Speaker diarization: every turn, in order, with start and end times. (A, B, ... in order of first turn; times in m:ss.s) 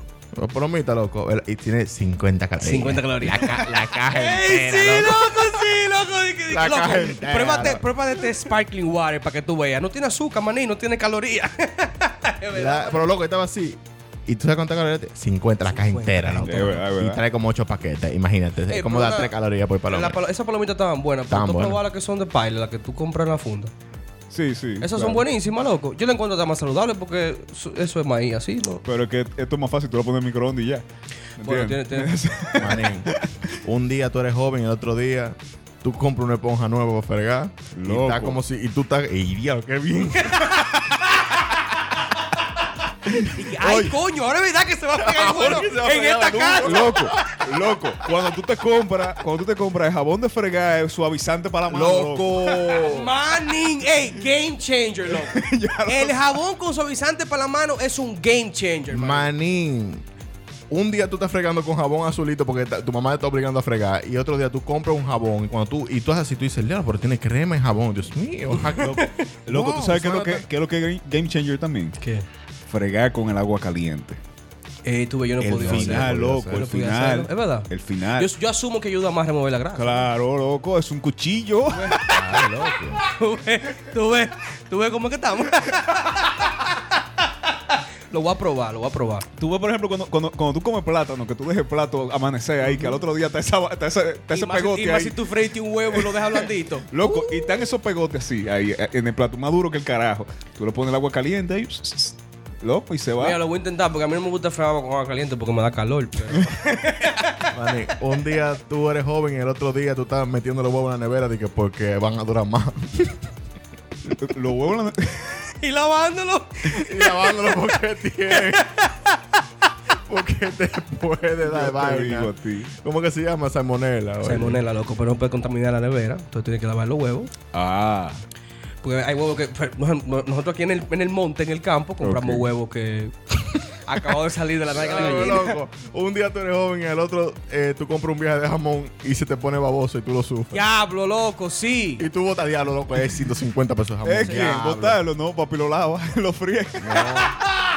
0:00.3-0:05.6 A
0:02.6-0:13.1 B
0:06.5-0:07.8 A
0:12.5-0:20.2 A
0:15.7-0:16.8 B
0:16.4-0:17.2 C
0:18.7-0:19.3 B
0:19.9-0:23.7 B
0:21.3-0:21.8 A
0:24.3-0:25.2 C
0:24.8-0:28.8 B
0:28.8-0:30.8 C
0:31.4-0:33.4 C
0:31.4-0:32.1 B
0:32.6-0:40.6 A
0:37.7-0:38.4 C
0:43.1-0:43.9 C
0:43.3-0:47.0 B
0:45.0-0:47.4 A
0:46.6-0:52.6 C
0:51.7-0:53.1 A
0:52.7-0:59.3 B
0:55.1-0:56.2 C
0:58.9-1:00.0 A
1:00.7-1:10.4 A
1:08.8-1:12.0 C
1:08.8-1:09.2 B
1:12.0-1:12.2 B
1:12.7-1:14.2 C
1:14.8-1:20.1 B
1:15.4-1:16.7 A
1:15.4-1:18.3 C
1:19.8-1:22.0 C
1:21.7-1:22.2 B
1:22.0-1:23.0 A
1:23.0-1:26.8 B
1:27.7-1:29.2 B
1:29.4-1:35.3 C
1:34.3-1:37.6 B
1:35.9-1:43.4 C
1:43.2-1:47.5 B
1:47.5-1:53.3 A
1:54.1-1:55.5 C
1:55.6-1:57.7 B
1:56.7-1:58.7 A
1:58.3-1:59.2 B
1:59.9-2:04.6 A
2:01.4-2:02.7 C
2:04.2-2:07.3 B
2:07.5-2:08.2 C
2:08.8-2:13.2 B
2:12.0-2:12.4 C
2:13.8-2:15.6 B
2:14.7-2:20.6 A
2:20.5-2:22.0 B
2:22.0-2:25.0 A
2:24.0-2:27.3 C
2:26.8-2:27.4 A